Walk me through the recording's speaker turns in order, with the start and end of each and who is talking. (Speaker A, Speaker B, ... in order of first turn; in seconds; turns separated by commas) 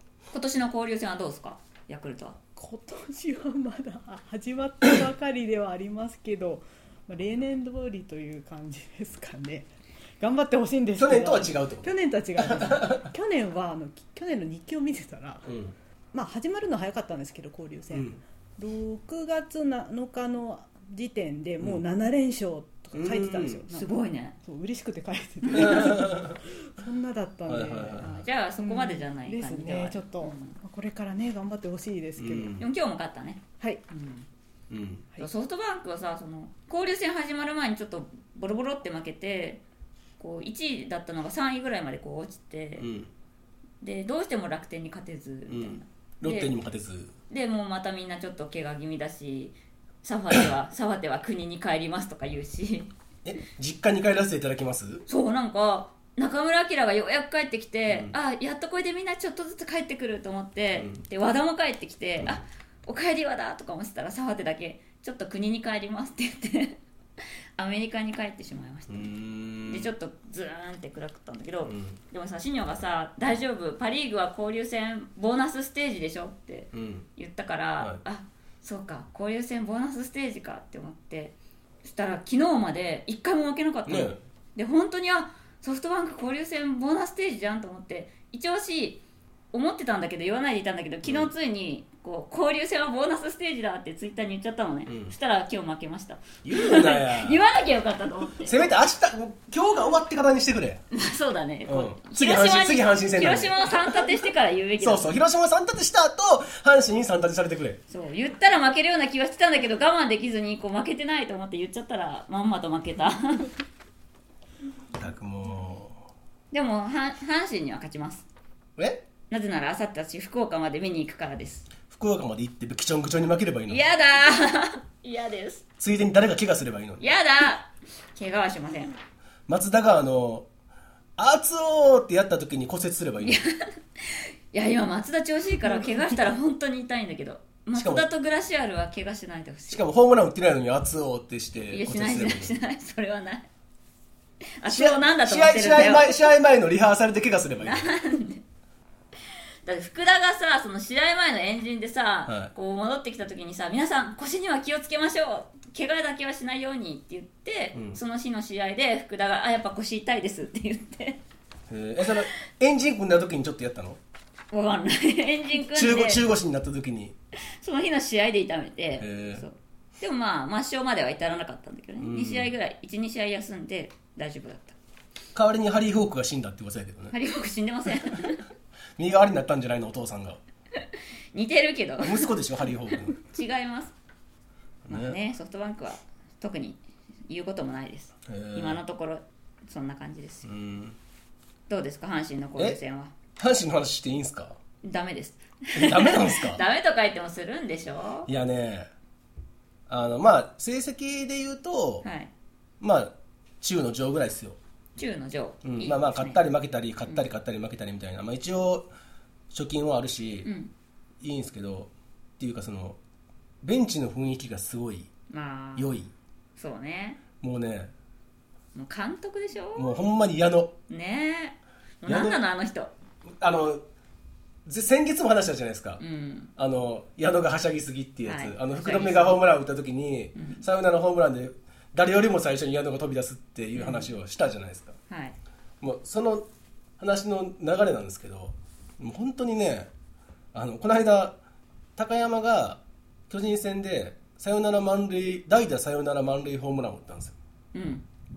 Speaker A: 0.3-2.4, Speaker B: 2.6-15.5, Speaker C: 11.0-13.1, Speaker C: 15.4-15.7, Speaker B: 16.1-32.6, Speaker C: 17.9-18.2, Speaker C: 22.9-23.6, Speaker A: 23.7-24.3, Speaker C: 25.5-26.4, Speaker C: 27.5-28.1, Speaker A: 28.0-30.5, Speaker C: 32.2-32.6, Speaker A: 32.6-34.2, Speaker C: 34.7-35.0, Speaker A: 35.2-39.6, Speaker A: 40.2-42.9, Speaker C: 42.8-43.1, Speaker A: 43.8-46.5, Speaker C: 45.5-47.1, Speaker A: 47.3-52.9, Speaker C: 53.2-55.0, Speaker A: 55.1-66.8, Speaker C: 57.9-58.1, Speaker C: 60.7-61.0, Speaker A: 67.6-69.1, Speaker C: 68.9-69.9, Speaker A: 69.7-98.6, Speaker C: 71.7-72.0, Speaker C: 76.7-77.1, Speaker C: 83.8-84.2, Speaker C: 91.0-91.3, Speaker C: 94.9-95.1, Speaker C: 96.4-97.4, Speaker C: 98.4-100.8, Speaker A: 100.9-105.1, Speaker C: 101.7-103.9, Speaker C: 104.8-107.8, Speaker A: 107.9-113.5, Speaker C: 115.0-116.0, Speaker A: 116.5-118.2, Speaker C: 118.8-119.0, Speaker A: 119.3-121.7, Speaker C: 121.9-123.8, Speaker A: 123.7-125.6, Speaker C: 125.8-127.0, Speaker A: 127.0-128.9, Speaker C: 129.5-130.5, Speaker C: 131.2-133.4, Speaker A: 133.2-139.8, Speaker C: 137.7-138.1, Speaker C: 139.7-142.5, Speaker A: 141.7-143.5, Speaker A: 144.6-146.3, Speaker C: 144.7-147.9, Speaker A: 147.6-148.4, Speaker A: 149.6-161.2, Speaker C: 152.3-152.5, Speaker C: 157.7-158.0, Speaker C: 161.7-164.0, Speaker A: 164.5-166.2, Speaker C: 165.6-167.1, Speaker A: 167.6-174.8, Speaker C: 169.0-169.4, Speaker C: 172.0-172.5, Speaker C: 175.3-177.1, Speaker A: 177.1-178.4, Speaker C: 179.0-180.4, Speaker A: 181.3-182.3, Speaker C: 182.0-183.2, Speaker A: 183.2-183.9, Speaker C: 184.8-185.2, Speaker A: 184.9-190.5, Speaker C: 188.3-188.8, Speaker C: 190.4-191.0, Speaker A: 191.7-193.1, Speaker C: 193.4-194.6, Speaker A: 194.8-198.3, Speaker C: 195.7-196.6, Speaker C: 198.3-198.9, Speaker C: 199.9-202.1, Speaker A: 202.0-202.3, Speaker C: 202.8-204.6, Speaker A: 205.0-206.4, Speaker C: 205.6-208.9, Speaker C: 209.5-210.5, Speaker A: 210.4-210.7, Speaker C: 211.2-213.0, Speaker C: 213.6-215.1, Speaker A: 215.3-215.9, Speaker C: 215.8-216.1, Speaker A: 216.6-217.2, Speaker C: 217.4-217.9, Speaker A: 218.7-219.9, Speaker C: 219.7-220.8, Speaker A: 220.9-222.9, Speaker C: 222.0-222.4, Speaker C: 223.4-223.8, Speaker C: 224.6-226.0, Speaker A: 226.0-226.5, Speaker C: 226.6-235.0, Speaker A: 228.2-229.4, Speaker A: 230.3-230.6, Speaker A: 233.7-234.1, Speaker A: 235.1-235.3, Speaker C: 235.8-236.5, Speaker C: 237.0-239.9, Speaker C: 240.5-241.4, Speaker C: 242.0-247.3, Speaker A: 247.7-248.1